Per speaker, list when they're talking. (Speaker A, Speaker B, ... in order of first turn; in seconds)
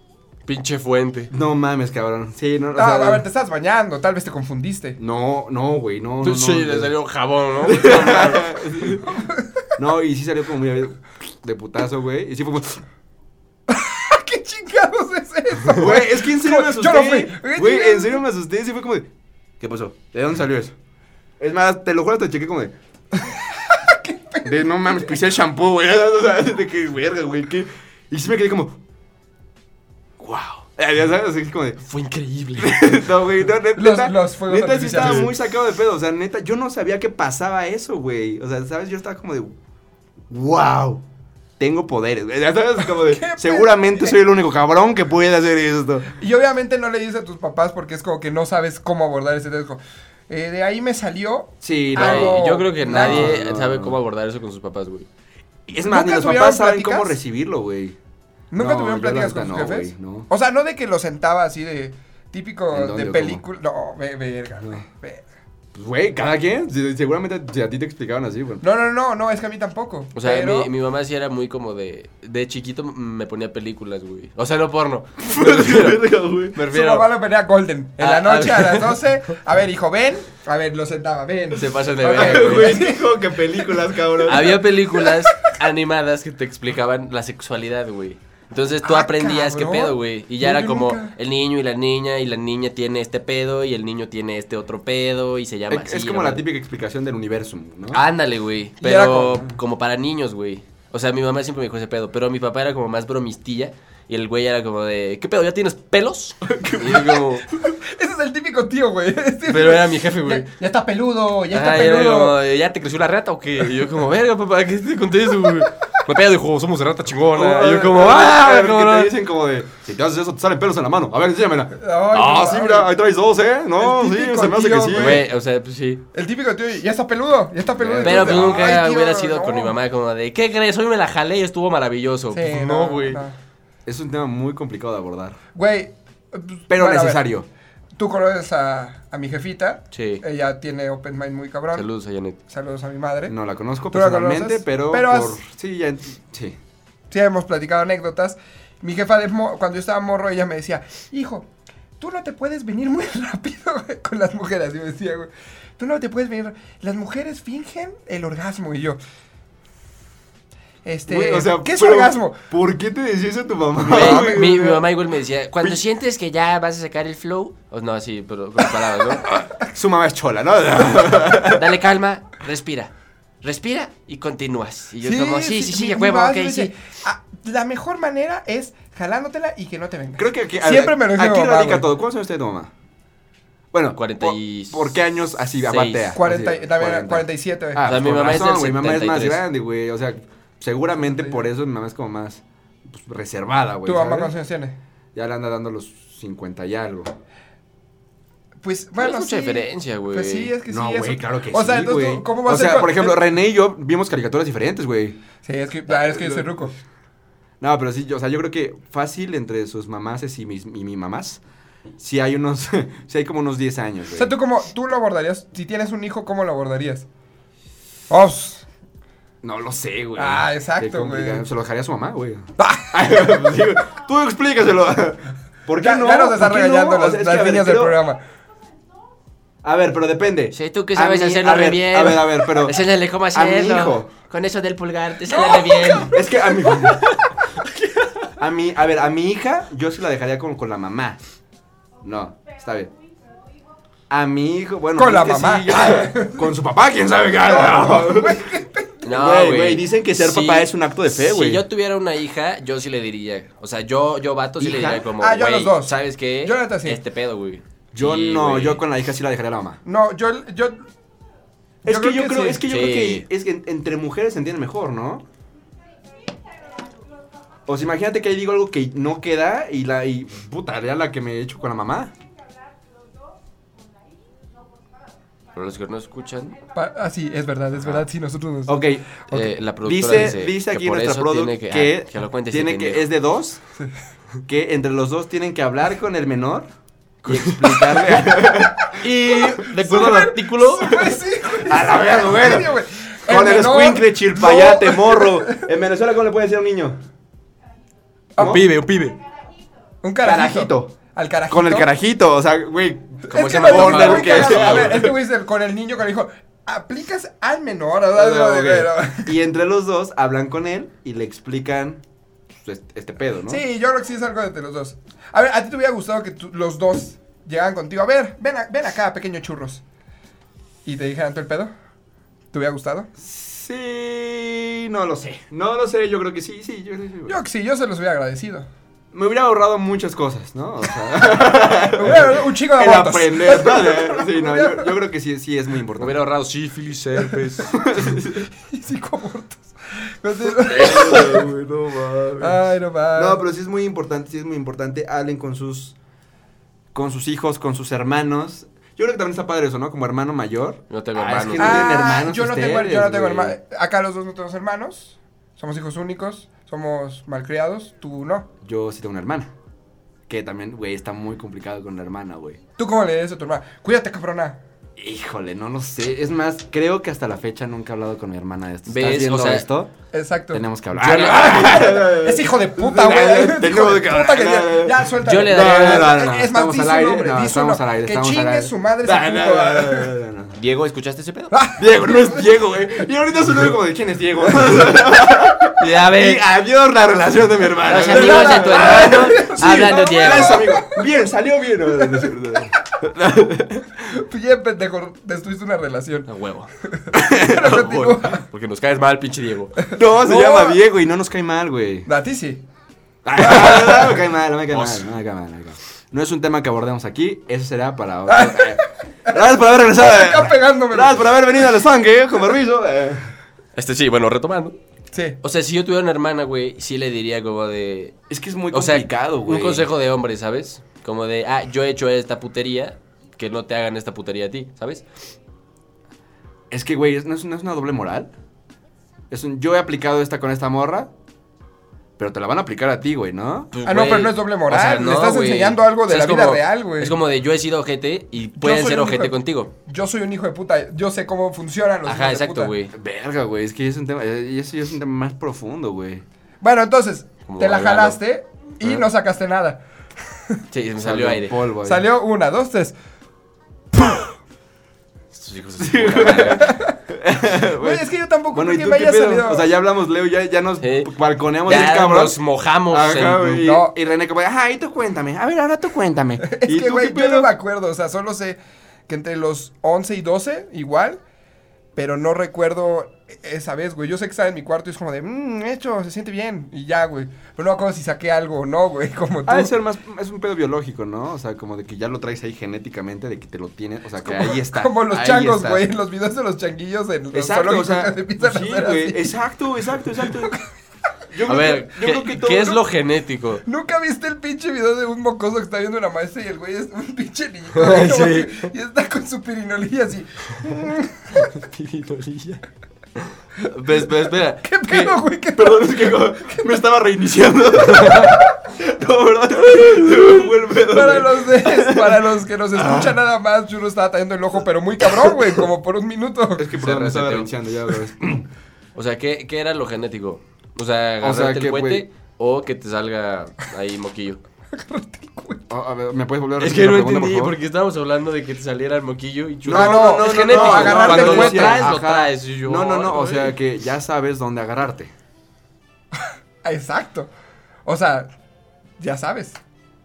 Speaker A: 0.5-1.3, 6.2-8.5, 31.9-33.1, 52.0-55.1, 70.2-77.1, 78.0-78.9, 81.6-82.8, 84.2-96.4, 97.9-107.5, 109.5-110.5, 111.5-119.1, 124.9-126.0, 128.0-133.2, 139.9-140.2, 141.7-142.4, 163.9-169.3, 171.5-176.7, 184.0-184.9, 185.6-186.2, 187.8-189.4, 199.0-200.5, 230.5-238.1, 249.0-258.8, 262.7-263.2, 275.5-276.6, 279.3-283.1, 287.2-288.3, 288.9-291.0, 298.4-299.2, 303.3-305.1, 336.0-337.8, 350.9-352.0, 368.9-369.7, 370.9-371.7, 375.2-376.2, 380.6-381.5, 385.8-386.4, 387.9-390.6, 396.3-396.7, 397.4-399.8, 404.7-405.0, 413.8-414.8, 415.4-418.2, 418.7-425.0, 433.7-439.7, 442.1-442.9, 447.5-448.2, 450.7-451.6, 455.3-456.8, 460.8-461.1, 461.6-463.6, 491.5-493.6, 497.7-498.7, 501.4-502.6, 503.6-505.2, 507.9-508.3, 516.8-517.5, 519.0-524.4, 526.6-533.5
Speaker B: 1.3-3.2, 5.0-6.9, 7.6-9.2, 9.8-12.8, 15.7-19.1, 19.6-20.8, 21.4-22.7, 24.4-28.8, 30.2-31.8, 32.6-39.6, 40.3-41.0, 41.6-46.1, 51.6-54.0, 55.7-58.0, 58.6-60.3, 62.7-63.4, 65.7-68.6, 75.2-76.6, 82.1-84.8, 95.7-98.0, 106.5-107.2, 117.2-125.2, 127.7-128.8, 133.9-135.4, 136.7-137.5, 143.3-146.6, 161.1-164.8, 169.3-171.6, 180.2-182.7, 183.7-194.3, 195.2-197.1, 200.7-205.2, 205.9-206.5, 207.6-211.4, 212.0-214.3, 219.4-228.0, 229.6-232.8, 233.3-234.1, 235.9-237.1, 238.4-241.2, 242.0-242.9, 244.1-248.5, 249.1-251.7, 254.6-255.1, 257.9-259.8, 261.8-265.2, 267.7-272.1, 278.7-279.2, 279.8-283.6, 284.5-286.7, 287.3-292.8, 293.3-297.0, 298.4-298.6, 300.2-301.0, 301.5-305.1, 308.1-313.6, 323.2-327.4, 329.1-336.2, 337.7-338.5, 340.6-342.6, 343.1-346.0, 346.9-353.6, 358.6-359.5, 360.3-362.6, 365.0-369.9, 370.5-380.6, 381.8-393.9, 397.1-397.7, 399.9-402.1, 403.2-413.3, 418.3-419.9, 426.7-428.3, 429.3-431.1, 432.2-433.7, 442.9-446.2, 451.0-452.1, 455.8-467.5, 479.5-485.9, 487.3-490.6, 491.3-492.8, 505.6-513.2, 515.1-515.4, 516.6-518.5, 521.2-522.0, 525.7-527.5, 529.6-535.1
Speaker C: 2.8-5.0, 9.0-9.7, 13.7-18.2, 23.1-25.0, 33.8-35.4, 42.9-44.2, 46.1-53.4, 55.8-57.2, 58.5-65.2, 68.6-70.7, 76.7-83.0, 88.8-91.2, 98.8-99.5, 107.7-112.4, 121.8-122.9, 123.8-125.2, 126.1-129.8, 132.3-133.3, 135.6-137.2, 138.0-141.9, 142.5-143.3, 143.9-145.4, 147.1-151.5, 152.0-159.0, 160.8-162.4, 163.9-164.8, 175.0-181.9, 186.2-187.8, 193.8-194.8, 198.6-203.2, 205.4-206.7, 214.2-217.1, 218.1-218.7, 220.2-221.5, 222.6-223.0, 225.8-228.2, 235.6-236.0, 245.0-246.5, 247.5-249.1, 255.2-257.0, 259.9-260.8, 261.9-262.6, 276.7-278.8, 289.7-295.7, 300.0-301.9, 303.3-309.4, 313.5-319.8, 320.9-321.7, 322.5-323.1, 327.3-328.7, 331.9-334.9, 338.6-341.5, 342.4-343.4, 351.6-358.5, 362.8-364.6, 370.1-370.6, 371.3-380.1, 381.5-382.5, 388.0-391.1, 391.9-392.3, 394.0-396.3, 396.9-398.4, 399.9-400.8, 402.1-402.6, 403.6-404.1, 408.3-411.7, 415.1-415.4, 433.9-437.2, 438.6-439.3, 439.9-442.7, 446.6-449.8, 451.8-452.9, 456.3-457.0, 457.8-459.7, 463.6-463.9, 466.4-471.2, 472.0-479.7, 484.2-489.3, 490.2-490.6, 493.6-501.5, 504.6-506.7, 510.9-516.7, 524.7-525.6, 529.7-531.9, 536.6-537.3, 537.9-538.3, 539.0-539.6